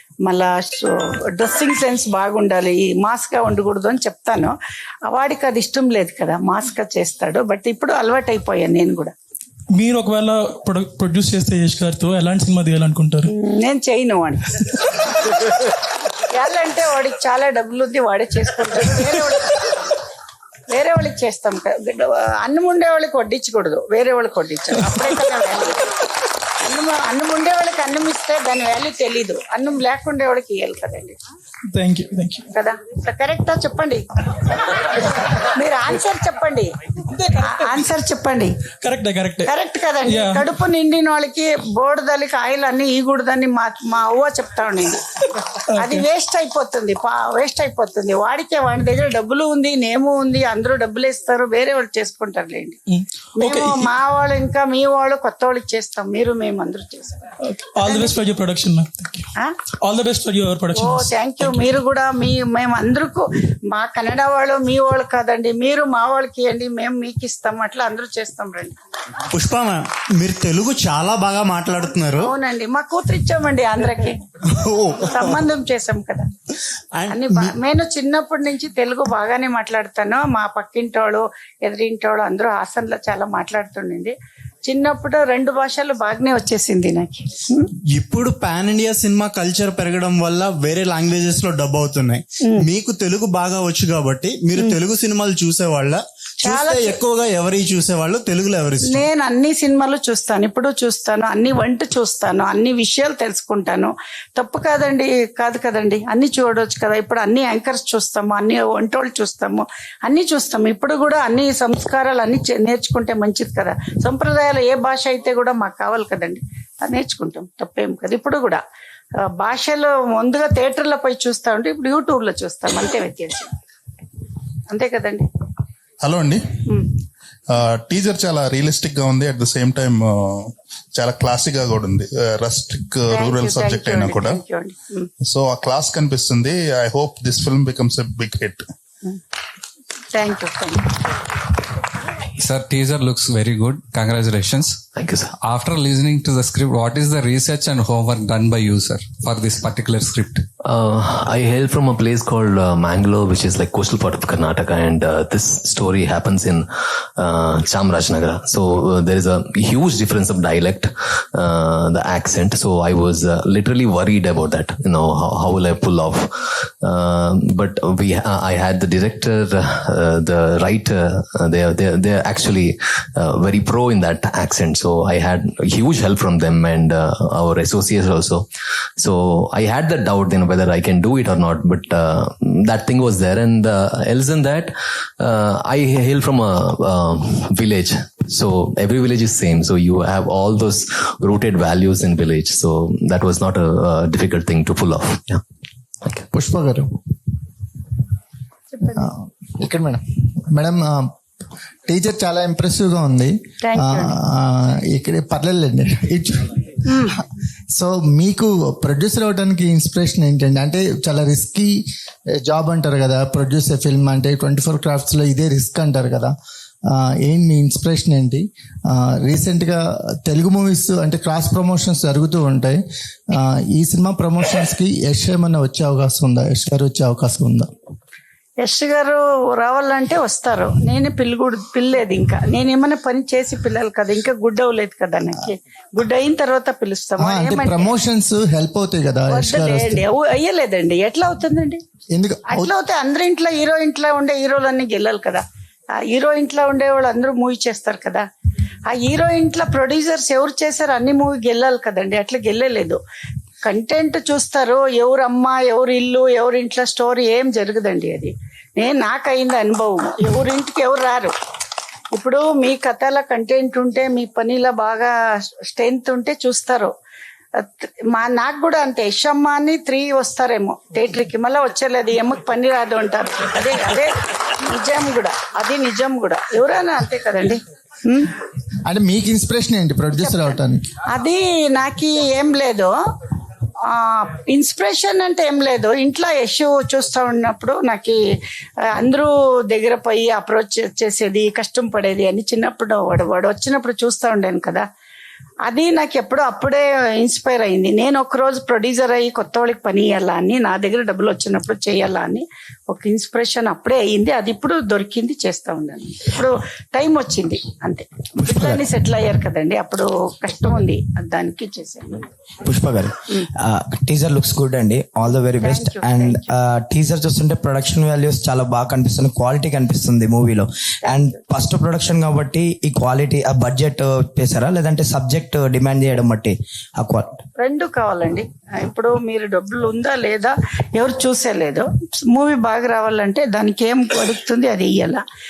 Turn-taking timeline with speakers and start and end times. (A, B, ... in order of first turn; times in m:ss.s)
0:00.2-0:09.1 A
0:09.7-0:13.3 B
0:13.2-0:14.4 A
0:16.3-0:19.6 A
0:20.7-0:25.9 A
0:26.6-0:31.2 A
0:31.7-0:32.5 B
0:32.5-0:34.0 A
0:35.4-0:36.7 A
0:37.1-0:37.9 B
0:37.4-0:38.5 A
0:38.8-0:39.5 B
0:39.4-0:45.0 A
0:40.0-0:40.4 B
0:45.8-0:52.8 A
0:52.9-0:53.9 B
0:53.4-0:58.2 A
0:57.4-0:59.3 B
0:59.8-1:01.7 B
1:00.7-1:08.8 A
1:09.3-1:12.3 C
1:12.2-1:14.2 A
1:14.7-1:15.4 C
1:15.1-1:16.3 A
1:16.9-1:17.6 C
1:17.1-1:27.7 A
1:27.9-1:39.1 C
1:36.4-1:36.9 A
1:38.8-1:58.6 A
1:59.2-2:03.5 A
2:04.7-2:05.3 A
2:06.0-2:06.4 D
2:06.6-2:06.9 A
2:07.5-2:10.4 D
2:11.0-2:14.2 D
2:13.1-2:15.1 A
2:15.3-2:18.6 D
2:20.1-2:21.0 A
2:22.4-2:24.8 E
2:25.0-2:25.3 F
2:25.4-2:30.4 E
2:30.6-2:36.7 F
2:37.2-2:58.4 F
2:59.0-3:15.4 F
3:16.3-3:16.9 G
3:18.7-3:19.1 A
3:19.0-3:20.0 G
3:20.5-3:21.0 G
3:21.9-3:26.7 G
3:23.6-3:24.2 A
3:26.9-3:27.1 A
3:27.7-3:31.7 G
3:32.4-3:36.3 G
3:36.9-3:42.8 G
3:43.3-3:47.7 G
3:48.6-3:57.9 A
3:57.2-4:00.0 G
3:59.3-4:01.8 A
4:02.1-4:02.7 G
4:02.5-4:08.2 A
4:08.9-4:13.0 A
4:13.6-4:21.3 A
4:22.1-4:26.9 A
4:27.6-4:38.3 A
4:38.9-4:40.9 G
4:40.2-4:42.9 A
4:43.8-4:48.2 A
4:48.9-4:54.8 A
4:55.6-5:12.3 A
5:08.4-5:08.8 H
5:12.6-5:27.4 H
5:15.2-5:16.6 A
5:27.6-5:35.2 A